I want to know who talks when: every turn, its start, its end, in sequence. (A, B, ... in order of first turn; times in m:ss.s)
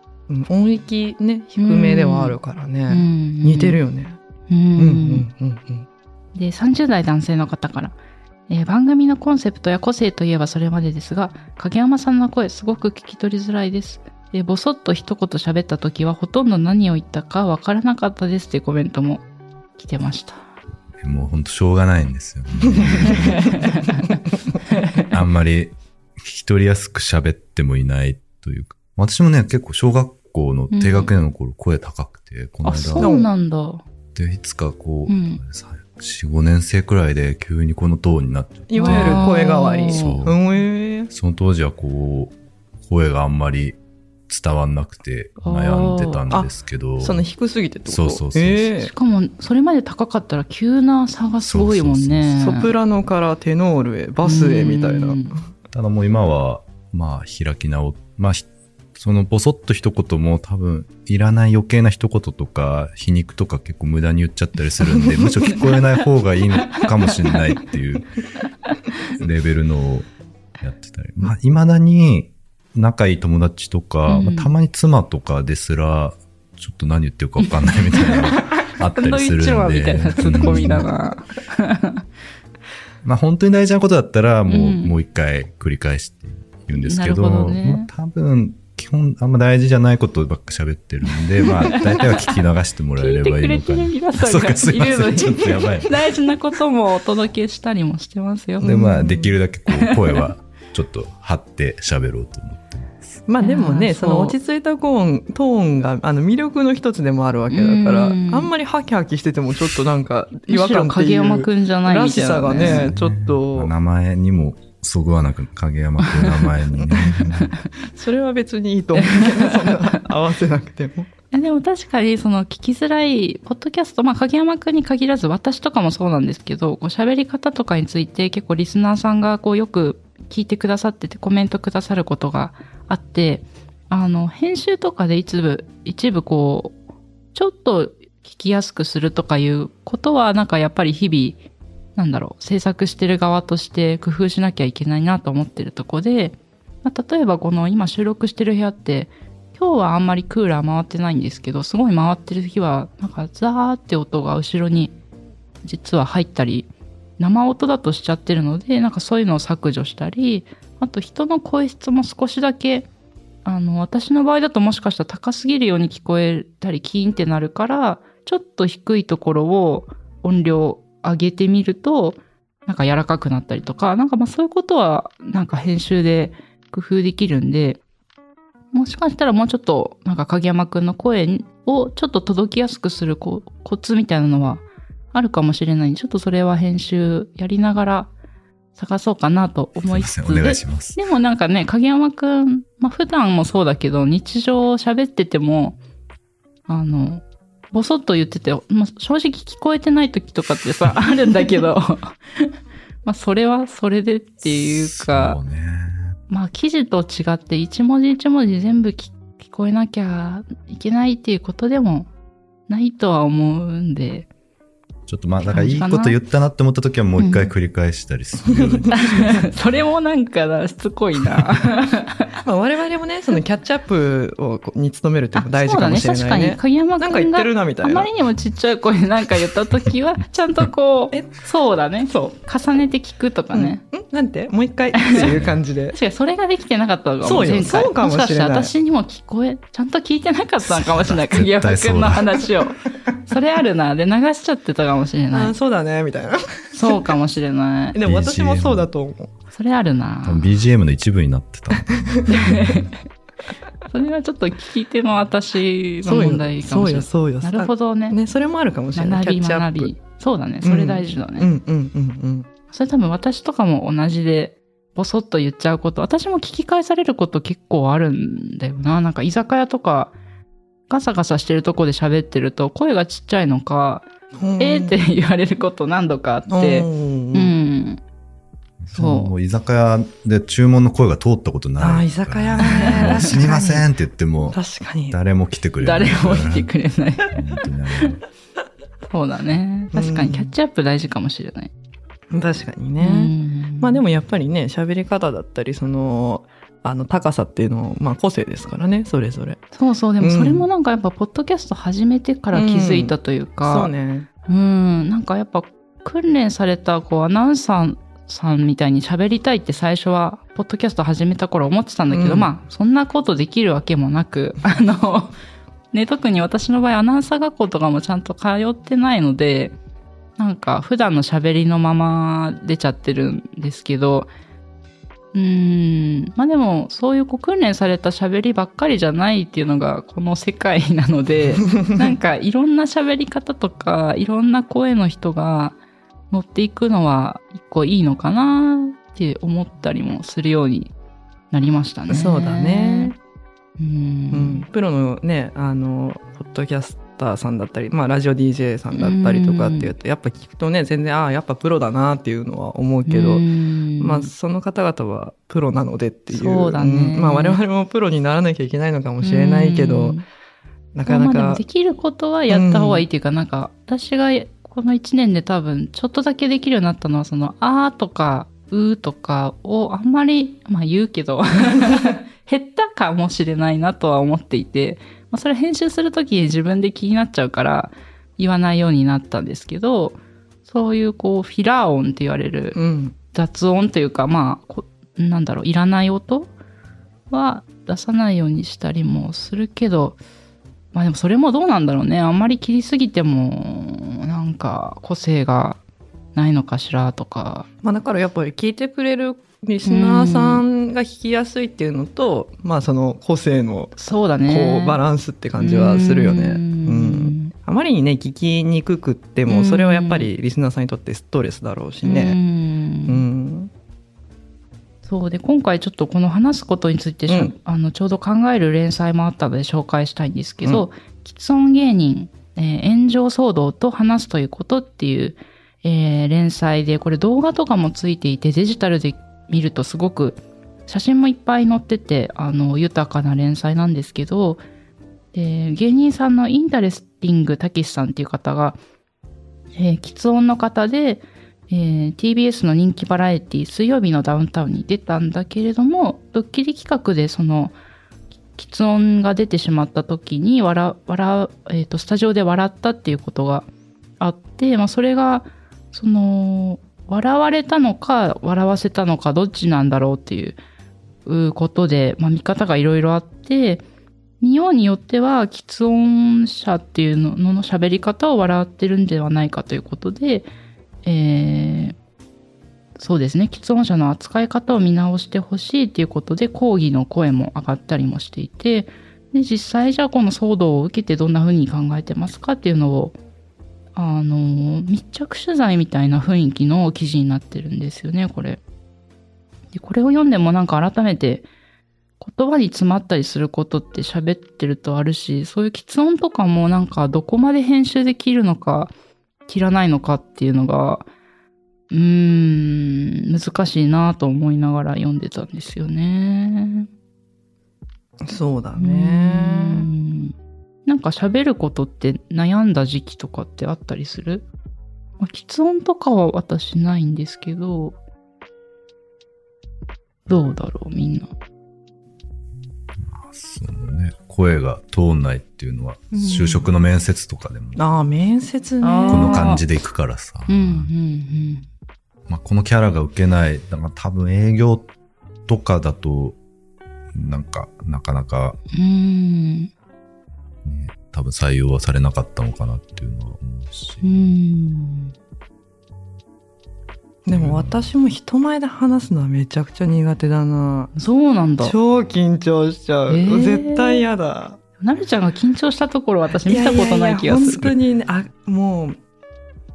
0:00.3-0:04.2 A
0:01.6-0:02.4 B
0:02.9-0:03.8 B
0:04.5-0:05.2 B
0:04.8-0:05.9 A
0:06.3-0:08.0 B
0:08.5-0:19.2 B
0:19.8-0:20.4 B
0:21.0-0:23.7 C
0:23.4-0:24.2 B
0:24.7-0:25.0 B
0:25.1-0:33.1 C
0:30.7-0:31.1 B
0:32.6-0:33.8 B
0:33.0-0:33.3 A
0:34.1-0:39.3 C
0:35.1-0:35.4 B
0:38.7-0:41.1 A
0:38.8-0:40.2 B
0:39.9-0:40.4 C
0:41.1-0:43.8 C
0:44.3-0:47.2 C
0:45.4-0:46.2 B
0:46.3-0:48.9 A
0:47.8-0:48.7 C
0:48.8-0:52.7 B
0:51.4-0:52.5 C
0:52.4-0:55.4 A
0:54.2-0:55.4 B
0:55.7-1:08.2 C
1:09.2-1:10.1 C
1:10.6-1:20.9 C
1:14.1-1:14.6 B
1:17.4-1:18.4 B
1:19.0-1:22.0 B
1:20.3-1:20.9 A
1:23.0-1:35.9 C
1:24.5-1:24.9 B
1:26.8-1:27.9 B
1:31.7-1:32.3 B
1:33.0-1:38.7 B
1:38.6-1:39.3 A
1:38.6-1:43.2 C
1:39.7-1:40.2 B
1:43.3-1:53.7 A
1:43.4-1:44.4 B
1:47.5-1:48.5 B
1:50.5-1:52.9 B
1:52.6-1:57.5 C
1:57.9-2:01.1 A
1:59.0-1:59.5 B
2:01.3-2:16.8 B
2:17.3-2:21.4 B
2:22.0-2:34.9 B
2:35.6-2:42.9 B
2:43.4-2:57.8 B
2:58.7-3:08.1 B
3:08.8-3:15.8 B
3:09.8-3:11.0 C
3:16.7-3:22.5 B
3:23.0-3:25.4 B
3:24.4-3:26.2 C
3:26.3-3:32.1 B
3:32.7-3:34.3 B
3:35.1-3:39.5 C
3:35.4-3:36.2 B
3:37.2-3:37.5 B
3:38.5-3:39.0 A
3:39.0-3:42.3 B
3:42.4-3:48.1 A
3:45.3-3:53.8 B
3:51.1-3:51.4 A
3:52.0-3:52.3 A
3:53.5-3:56.0 A
3:55.0-3:55.3 B
3:55.1-3:55.6 C
3:55.9-4:05.5 B
3:57.2-3:58.7 A
4:00.6-4:02.5 C
4:05.3-4:07.1 A
4:06.7-4:08.0 B
4:07.9-4:09.3 A
4:08.0-4:08.9 C
4:09.5-4:10.4 B
4:10.2-4:12.8 C
4:12.3-4:12.8 B
4:13.8-4:18.2 B
4:16.0-4:19.9 A
4:18.9-4:21.5 B
4:20.6-4:22.5 A
4:22.7-4:30.1 B
4:30.9-4:38.0 B
4:34.3-4:34.9 A
4:36.5-4:37.5 A
4:38.8-4:46.7 C
4:38.9-4:39.3 B
4:41.8-4:43.8 A
4:42.6-4:43.8 B
4:44.5-4:45.2 A
4:45.8-4:47.4 B
4:47.3-4:48.2 C
4:49.1-4:51.7 B
4:49.9-4:50.5 A
4:52.3-4:59.6 A
4:53.0-4:54.0 B
4:59.7-5:03.9 B
5:00.2-5:00.6 A
5:02.5-5:04.3 A
5:04.5-5:15.3 B
5:12.1-5:12.5 A
5:15.9-5:19.7 B
5:20.4-5:24.3 B
5:25.3-5:35.8 B
5:36.3-5:40.9 B
5:41.5-5:43.1 B
5:42.1-5:43.2 A
5:43.8-5:44.6 B
5:44.3-5:53.4 A
5:48.9-5:49.9 B
5:53.0-5:54.3 B
5:54.0-6:00.2 A
5:56.3-5:57.6 B
5:59.2-6:00.2 B
6:00.9-6:01.6 A
6:01.1-6:22.8 B
6:02.5-6:03.0 A
6:22.7-6:23.1 A
6:23.3-6:26.5 B
6:27.3-6:30.2 B
6:30.9-6:35.8 B
6:36.3-6:37.6 B
6:37.8-6:52.4 A
6:39.8-6:40.6 B
6:44.0-6:45.0 B
6:45.6-6:47.5 B
6:49.5-6:50.3 B
6:52.0-6:53.2 B
6:53.1-6:53.7 A
6:55.0-7:14.6 B
6:57.3-6:57.5 A
7:15.3-7:18.8 B
7:19.7-7:27.8 B
7:28.6-7:33.7 B
7:34.2-7:40.6 B
7:41.2-7:43.8 B
7:44.4-7:50.5 B
7:51.0-7:52.0 B
7:53.0-8:03.2 B
8:04.0-8:08.6 B
8:09.7-8:11.5 B
8:12.2-8:18.9 B
8:19.5-8:21.0 B
8:21.9-8:26.9 B
8:28.2-8:29.9 A
8:28.8-8:30.3 B
8:30.8-8:34.4 B
8:35.2-8:38.0 B
8:40.3-8:41.3 B
8:43.0-8:47.8 C
8:46.1-8:46.7 B
8:47.8-8:49.4 A
8:48.8-8:49.6 B
8:49.1-8:50.9 C
8:50.5-8:51.6 B
8:52.3-8:54.9 C
8:55.5-8:56.4 C
8:57.1-8:58.6 C
8:58.7-8:59.7 B
9:00.6-9:04.3 C
9:04.0-9:05.1 B
9:07.2-9:10.9 A
9:07.3-9:07.9 C
9:11.0-9:11.7 B
9:11.6-9:14.6 A
9:13.1-9:14.0 B
9:14.8-9:17.7 B
9:16.4-9:19.0 A